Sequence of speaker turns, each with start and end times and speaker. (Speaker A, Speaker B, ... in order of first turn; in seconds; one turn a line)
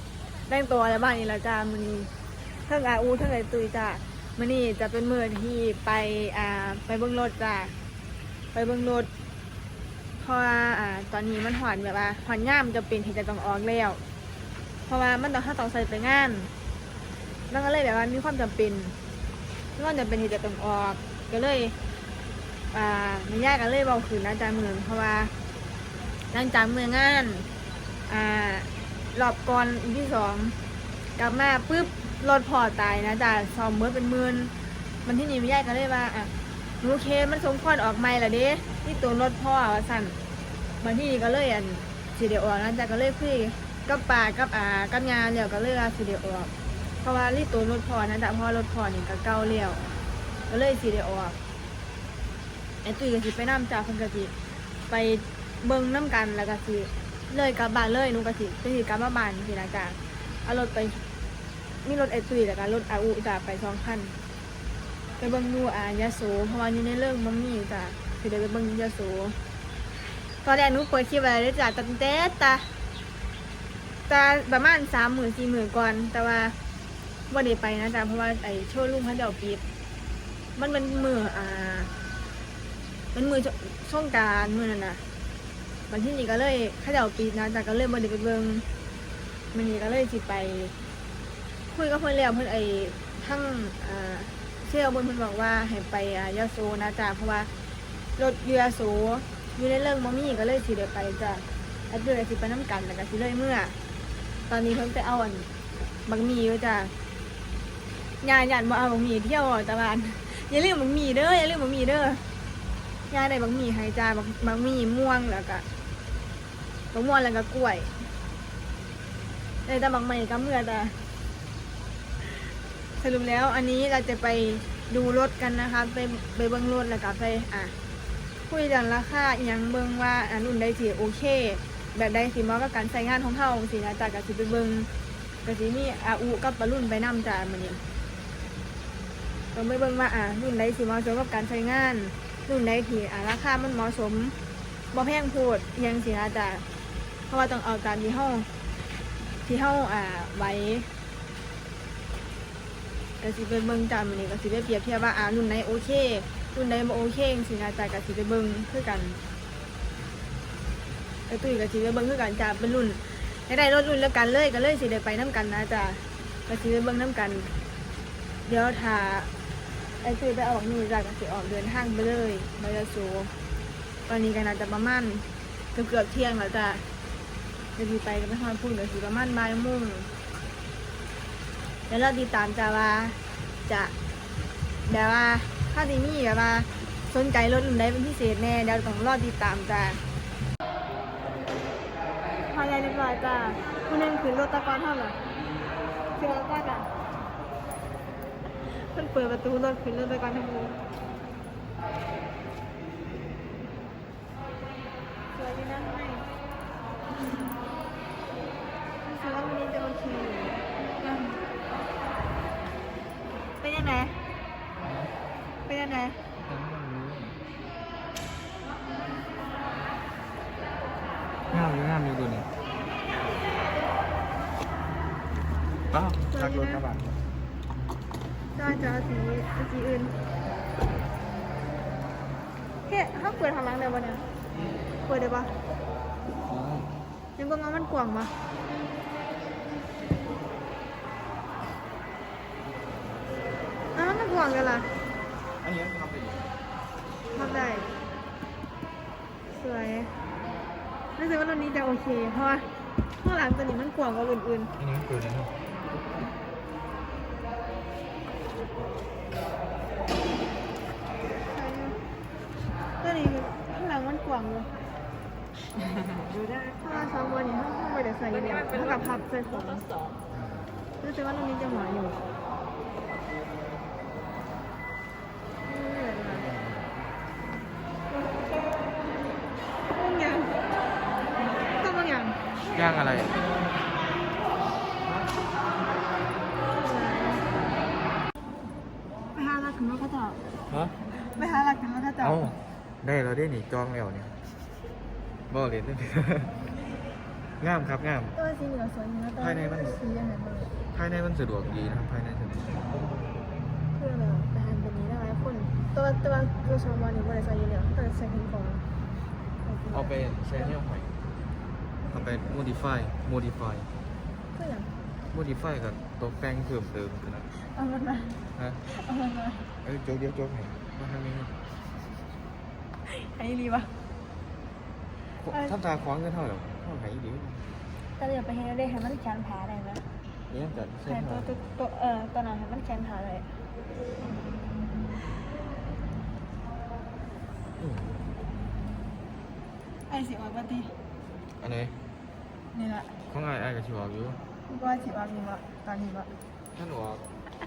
Speaker A: 0.5-2.1
Speaker A: 2.7-7.7
Speaker A: 8.5-9.1
Speaker A: 10.2-14.0
Speaker A: 14.9-16.5
Speaker A: 17.5-18.9
Speaker A: 19.8-21.8
Speaker A: 22.7-25.3
Speaker A: 26.3-27.5
Speaker A: 28.1-30.6
Speaker A: 31.2-34.5
Speaker A: 35.0-40.2
Speaker A: 40.8-46.5
Speaker A: 47.0-49.9
Speaker A: 50.5-51.4
Speaker A: 52.8-54.3
Speaker A: 54.9-61.0
Speaker A: 61.8-64.1
Speaker A: 65.2-69.4
Speaker A: 70.4-72.7
Speaker A: 74.1-76.6
Speaker A: 77.3-79.6
Speaker A: 80.6-81.9
Speaker A: 83.1-85.0
Speaker A: 85.9-88.7
Speaker A: 89.5-90.7
Speaker A: 91.7-97.5
Speaker A: 98.2-103.8
Speaker A: 104.5-105.5
Speaker A: 106.1-106.9
Speaker A: 108.2-112.2
Speaker A: 113.1-115.6
Speaker A: 116.9-117.9
Speaker A: 119.7-121.0
Speaker A: 123.0-127.8
Speaker A: 128.5-134.9
Speaker A: 135.4-137.8
Speaker A: 139.5-144.4
Speaker A: 144.9-146.7
Speaker A: 147.3-148.5
Speaker A: 149.4-150.9
Speaker A: 153.2-159.2
Speaker A: 161.3-167.5
Speaker A: 168.5-169.3
Speaker A: 170.0-173.3
Speaker A: 174.1-176.8
Speaker A: 177.8-180.1
Speaker A: 181.9-183.9
Speaker A: 184.9-190.0
Speaker A: 192.5-195.2
Speaker A: 196.1-196.9
Speaker A: 198.6-200.8
Speaker A: 205.3-206.3
Speaker A: 207.1-207.5
Speaker A: 209.0-211.4
Speaker A: 213.6-214.2
Speaker B: 214.8-215.1
Speaker A: 215.7-216.2
Speaker B: 216.4-217.4
Speaker B: 221.5-222.5
Speaker B: 225.9-227.2
Speaker A: 226.3-226.8
Speaker A: 228.6-230.2
Speaker A: 232.8-234.2
Speaker A: 235.0-235.6
Speaker B: 236.4-236.9
Speaker A: 237.4-238.3
Speaker A: 243.9-244.9
Speaker B: 245.6-246.6
Speaker A: 247.3-247.9
Speaker A: 249.5-250.1
Speaker A: 251.2-252.7
Speaker A: 253.2-254.7
Speaker B: 254.8-255.5
Speaker A: 261.4-262.0
Speaker A: 263.0-264.7
Speaker A: 266.7-269.9
Speaker B: 270.3-270.9
Speaker A: 271.0-272.2
Speaker A: 275.6-276.5
Speaker B: 276.3-277.2
Speaker A: 278.1-278.9
Speaker A: 279.9-280.6
Speaker A: 281.6-282.4
Speaker B: 282.7-283.4
Speaker B: 285.0-285.4
Speaker A: 286.6-287.5
Speaker A: 289.3-290.4
Speaker B: 290.7-291.0
Speaker A: 291.1-292.4
Speaker B: 292.2-294.4
Speaker B: 295.5-296.6
Speaker B: 297.6-298.4
Speaker A: 298.4-300.7
Speaker B: 299.4-300.0
Speaker B: 300.9-302.8
Speaker A: 303.9-308.8
Speaker A: 309.6-310.8
Speaker B: 309.9-311.1
Speaker B: 312.1-313.9
Speaker A: 314.6-314.9
Speaker B: 315.3-317.5
Speaker A: 317.6-319.7
Speaker B: 318.6-318.8
Speaker B: 319.8-321.6
Speaker A: 323.1-323.9
Speaker B: 325.4-327.7
Speaker A: 325.5-325.7
Speaker A: 328.2-330.1
Speaker B: 330.5-331.5
Speaker A: 331.1-333.6
Speaker B: 337.8-338.2
Speaker A: 340.1-340.9
Speaker B: 341.6-342.0
Speaker A: 342.7-343.1
Speaker B: 343.3-344.4
Speaker A: 344.7-346.3
Speaker B: 346.8-347.2